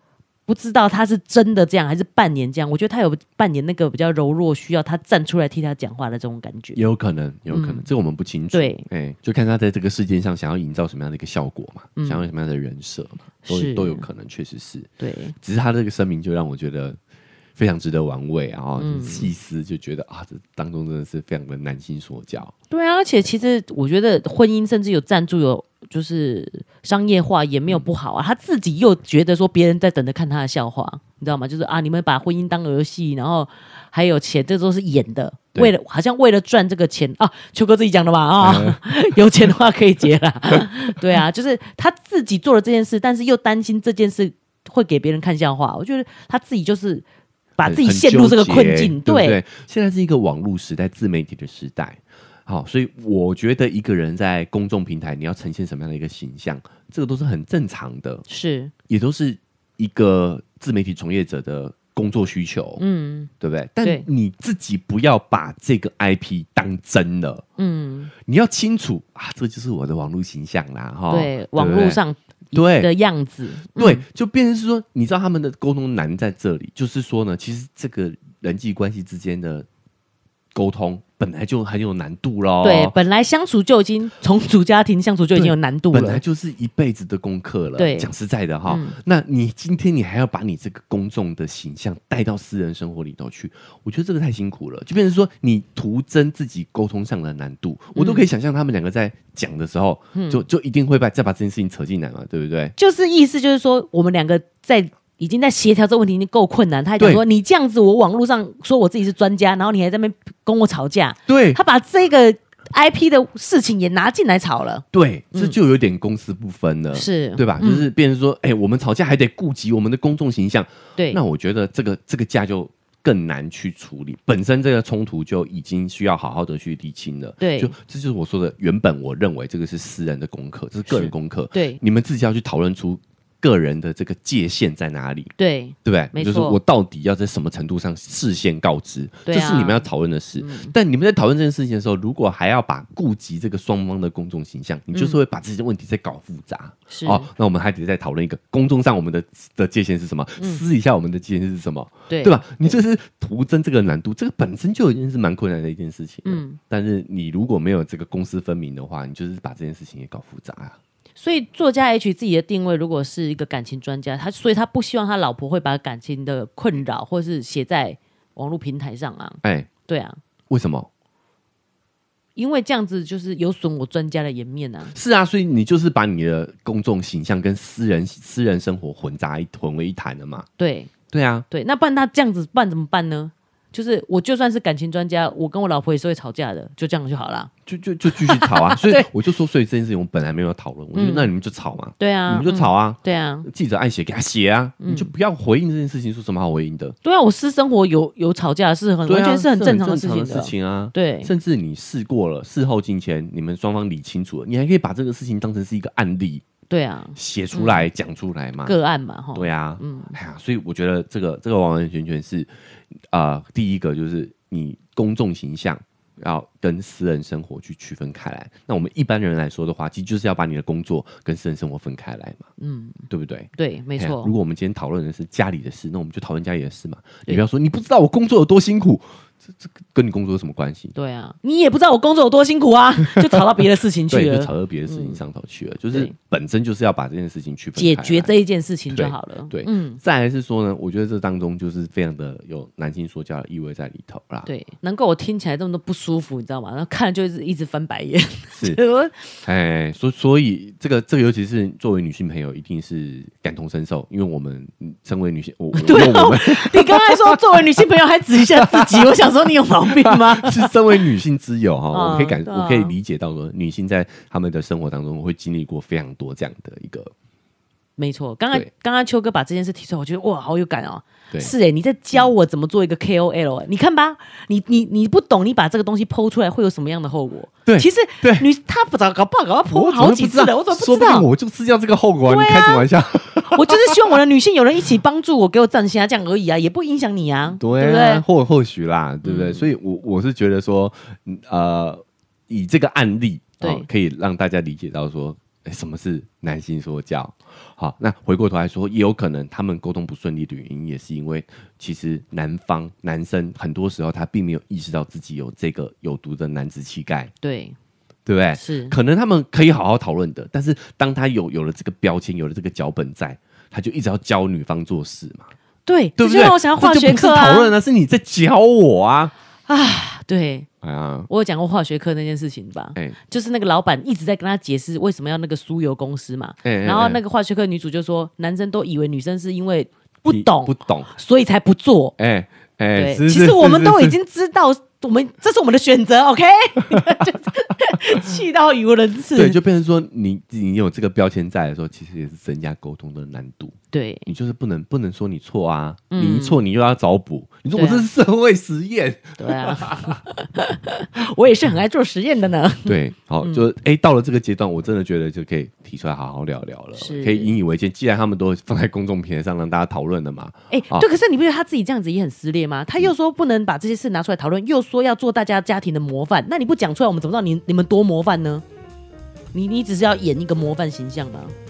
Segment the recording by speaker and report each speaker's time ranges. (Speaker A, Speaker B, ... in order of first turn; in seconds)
Speaker A: 0.5-6.8, 7.5-7.9, 8.5-8.9, 12.0-12.3, 13.5-14.1, 15.0-15.3, 18.8-19.3, 22.7-47.0, 47.6-49.4, 58.3-58.7, 62.8-63.3, 67.6-68.1, 71.1-74.0, 82.6-86.2, 87.8-88.1, 88.7-89.0, 98.0-98.2, 100.1-100.4, 102.8-115.5, 116.9-117.9, 127.4-127.7, 130.9-131.8, 135.4-136.6, 139.3-140.7, 144.9-145.2, 146.9-147.3, 152.1-152.8, 156.2-156.6, 161.2-170.2, 172.4-174.9, 180.6-180.9, 181.5-187.5, 188.1-189.1, 190.9-191.3, 192.0-193.5, 194.8-195.1, 197.0-201.3, 206.7-207.9, 208.6-210.2, 222.6-223.0, 223.6-224.3, 230.9-235.2, 237.8-240.0, 244.5-249.3, 255.7-260.7, 261.9-262.9, 268.0-281.3, 282.3-282.9, 283.5-288.2, 289.2-289.7, 293.6-293.9, 307.4-307.8, 308.6-309.0, 315.9-317.7, 319.7-320.7, 321.3-332.1, 332.9-339.6, 343.9-344.3, 346.1-346.6, 347.7-348.1, 349.4-353.6, 357.0-357.5, 360.7-368.6, 369.5-371.6
Speaker B: 6.8-17.0, 17.6-22.5, 38.4-38.8, 47.6-58.2, 58.9-62.8, 63.4-67.4, 68.2-72.0, 72.5-72.9, 73.7-79.7, 80.5-83.0, 85.3-102.8, 111.3-111.6, 114.9-135.3, 135.8-160.8, 169.4-169.7, 170.5-170.9, 174.9-180.5, 181.1-181.5, 187.7-196.9, 199.1-206.4, 207.2-208.8, 209.3-222.5, 223.1-229.0, 229.6-230.9, 233.0-238.3, 238.9-244.5, 248.5-248.8, 249.4-257.8, 258.4-259.1, 260.0-267.1, 277.7-278.5, 279.7-284.2, 287.6-307.3, 308.3-315.5, 316.2-319.3, 320.8-321.3, 326.6-327.2, 330.3-331.1, 332.2-334.2, 336.9-337.2, 339.3-350.2, 352.9-361.1